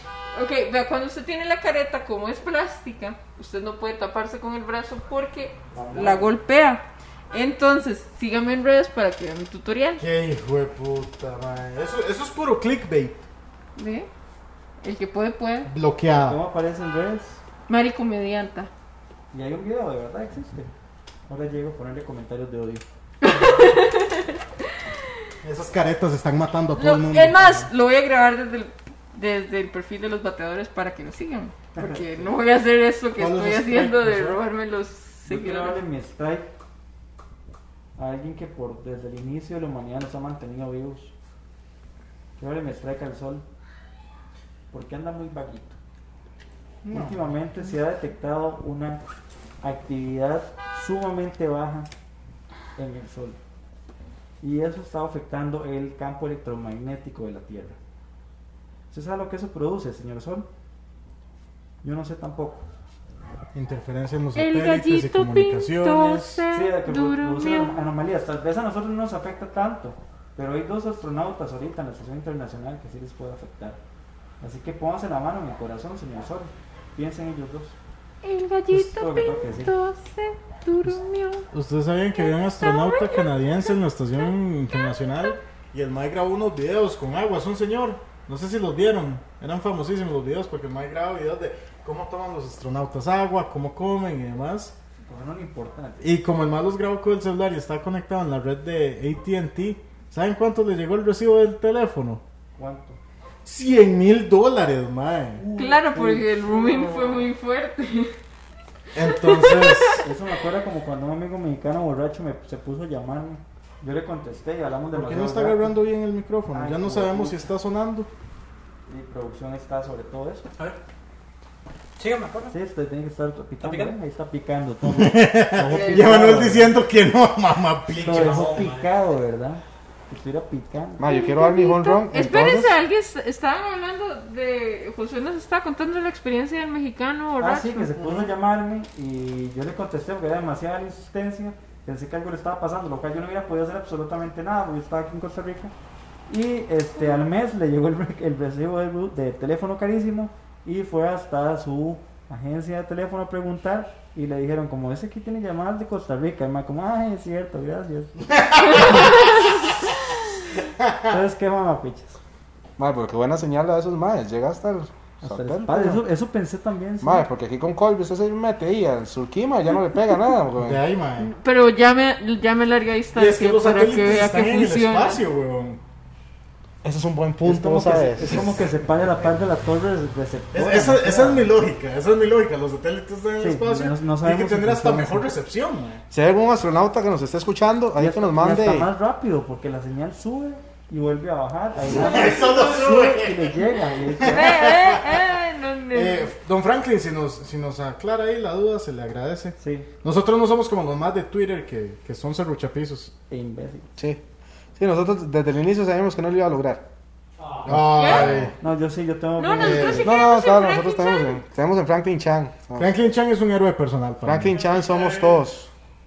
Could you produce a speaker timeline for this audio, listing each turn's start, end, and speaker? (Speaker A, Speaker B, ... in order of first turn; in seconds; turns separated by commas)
Speaker A: 0.3-10.0, Speaker B: 5.7-6.3, Speaker C: 10.0-13.2, Speaker A: 13.8-14.1, Speaker A: 14.8-15.7, Speaker C: 15.7-16.4, Speaker B: 16.1-17.4, Speaker A: 17.7-18.7, Speaker B: 19.3-20.7, Speaker B: 21.3-22.8, Speaker A: 23.2-24.7, Speaker C: 25.4-27.7, Speaker A: 26.7-35.8, Speaker B: 31.8-32.0, Speaker C: 33.2-34.4, Speaker B: 35.3-36.5, Speaker B: 38.0-41.1, Speaker B: 42.4-43.4, Speaker B: 44.7-45.8, Speaker C: 46.8-47.2, Speaker B: 46.9-49.0, Speaker B: 49.6-51.9, Speaker B: 52.8-53.4, Speaker B: 54.4-57.8, Speaker B: 58.9-60.5, Speaker B: 61.8-62.6, Speaker C: 63.5-66.4, Speaker A: 64.3-67.8, Speaker B: 66.5-73.8, Speaker B: 74.4-77.8, Speaker A: 78.2-81.5, Speaker B: 78.7-79.7, Speaker C: 81.5-94.7, Speaker A: 82.2-85.3, Speaker B: 95.0-96.1, Speaker C: 96.0-102.2, Speaker B: 102.5-103.0, Speaker C: 103.4-105.4, Speaker B: 105.4-107.3, Speaker A: 105.5-108.1, Speaker C: 108.9-110.0, Speaker A: 109.0-110.0, Speaker B: 110.0-115.8, Speaker C: 114.9-118.1, Speaker B: 116.5-117.5, Speaker B: 118.9-120.5, Speaker D: 122.0-122.5, Speaker B: 122.5-126.8, Speaker D: 123.6-123.9, Speaker C: 124.8-128.6, Speaker A: 125.7-126.1, Speaker D: 127.9-128.9, Speaker B: 128.0-131.0, Speaker E: 131.0-132.8, Speaker A: 131.0-137.9, Speaker B: 137.4-145.7, Speaker B: 146.3-158.1, Speaker C: 158.3-159.3, Speaker A: 158.7-159.5, Speaker C: 160.8-161.1, Speaker B: 161.1-162.2, Speaker E: 162.8-166.0, Speaker B: 165.2-167.2, Speaker E: 167.0-170.8, Speaker C: 170.6-171.3, Speaker A: 171.2-175.2, Speaker C: 173.2-175.8, Speaker E: 176.8-178.5, Speaker B: 177.4-181.5, Speaker C: 178.2-178.5, Speaker C: 180.5-186.0, Speaker B: 183.4-185.2, Speaker E: 186.1-188.9, Speaker B: 188.0-194.7, Speaker C: 191.9-193.6, Speaker C: 194.2-195.2, Speaker A: 194.2-196.3, Speaker C: 195.9-203.1, Speaker B: 199.6-199.9, Speaker B: 203.3-203.9, Speaker E: 204.8-206.8, Speaker B: 207.5-207.9, Speaker C: 207.7-208.5, Speaker E: 207.7-208.5, Speaker A: 207.9-208.4, Speaker B: 208.6-210.1, Speaker A: 209.4-211.4, Speaker C: 209.6-210.1, Speaker E: 209.9-212.9, Speaker C: 212.8-215.4, Speaker E: 214.2-215.7